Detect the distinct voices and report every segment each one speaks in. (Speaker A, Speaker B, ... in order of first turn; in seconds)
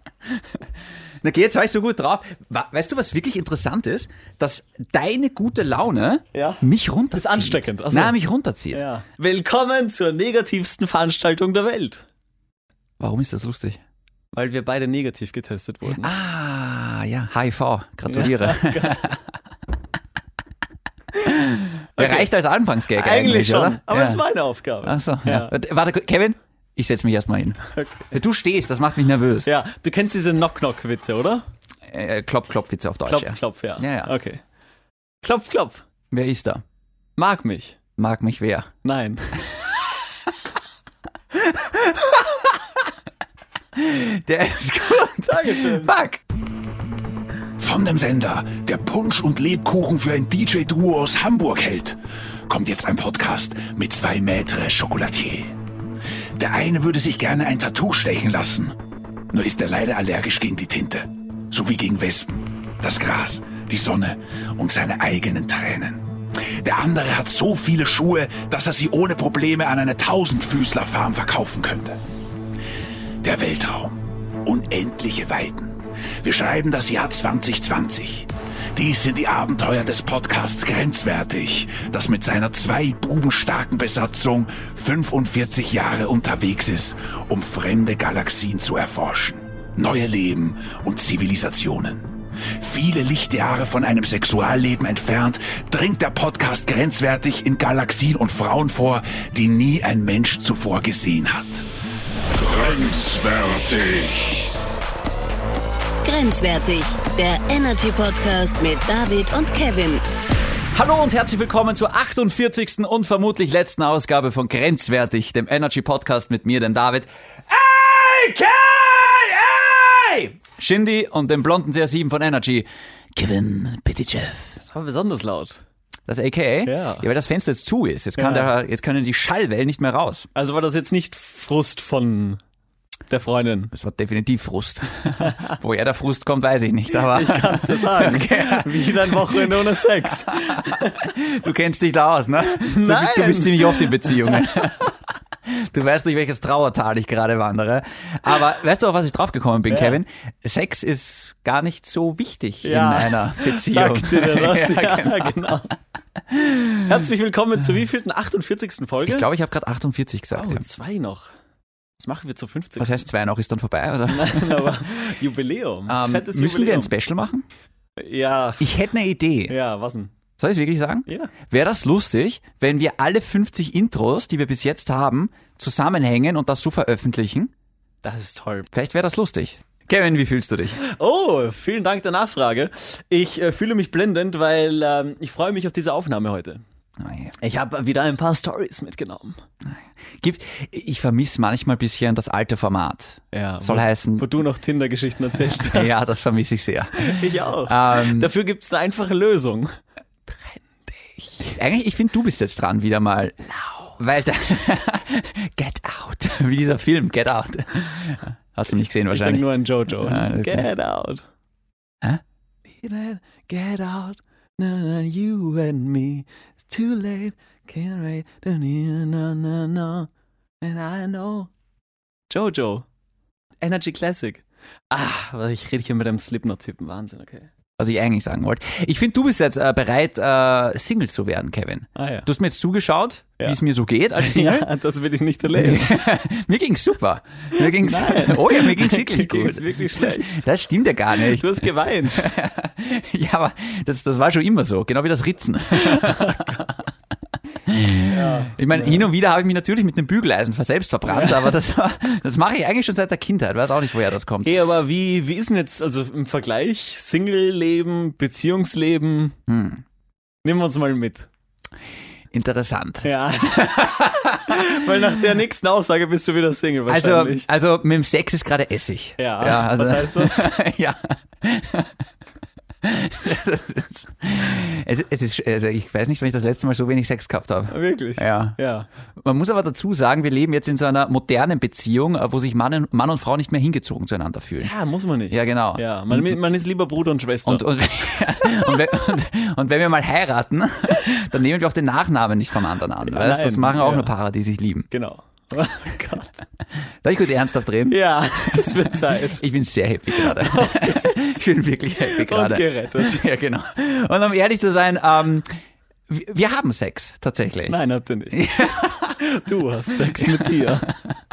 Speaker A: 0.3-0.6, 1.2-8.8, 13.0-13.8, 15.9-19.2, 21.2-24.2, 24.8-29.5, 31.9-34.1, 36.1-36.6, 38.0-38.7, 41.3-42.6, 43.7-46.2, 110.7-124.5, 126.1-130.3, 133.7-139.5, 140.5-144.9, 145.5-155.6, 156.3-156.8, 159.0-160.7, 162.8-164.8, 165.9-167.5, 168.6-169.6, 170.4-177.5, 178.7-180.8, 187.0-187.3, 189.7-194.3, 195.6-198.3, 201.6-203.4, 204.0-209.4, 210.0-210.7, 227.8-234.7, 235.5-246.7, 247.7-254.5, 259.5-259.8, 262.3-264.7, 266.9-272.0, 272.8-278.6, 279.2-284.7, 285.3-286.4, 287.5-294.9, 297.0-298.0, 298.5-305.5, 306.1-307.8, 308.3-309.2, 310.1-311.2
Speaker B: 6.3-8.2, 8.7-12.1, 14.3-16.1, 18.1-19.1, 22.0-22.3, 22.9-25.5, 27.8-28.1, 29.4-31.4, 33.1-34.4, 35.2-35.8, 37.2-37.8, 38.8-39.5, 45.2-46.0, 124.6-125.6, 126.7-127.0, 128.2-128.5, 130.3-132.4, 133.1-133.7, 136.9-141.0, 142.6-144.4, 149.7-150.0, 152.6-155.7, 156.8-159.3, 160.3-161.3, 162.0-163.1, 164.1-166.9, 168.0-168.8, 169.5-170.1, 171.1-171.3, 178.0-178.7, 180.8-186.6, 187.4-189.4, 193.3-195.9, 197.0-201.6, 209.1-211.2, 212.8-220.1, 220.6-221.5, 222.3-222.9, 223.6-227.5, 232.0-232.3, 234.2-235.9, 237.6-240.4, 241.3-242.3, 245.8-246.7, 248.1-249.1, 251.1-251.5, 254.4-259.4, 260.4-261.3, 263.0-267.5, 269.2-270.6, 277.7-278.9, 284.6-287.8, 293.1-294.1, 294.9-296.4, 297.9-299.4, 300.1-301.1, 302.0-303.2, 307.7-308.5, 309.2-310.9
Speaker C: 47.6-52.0, 52.5-55.6, 56.4-58.8, 59.3-72.0, 73.2-101.7, 102.3-104.5
Speaker D: 106.0-110.0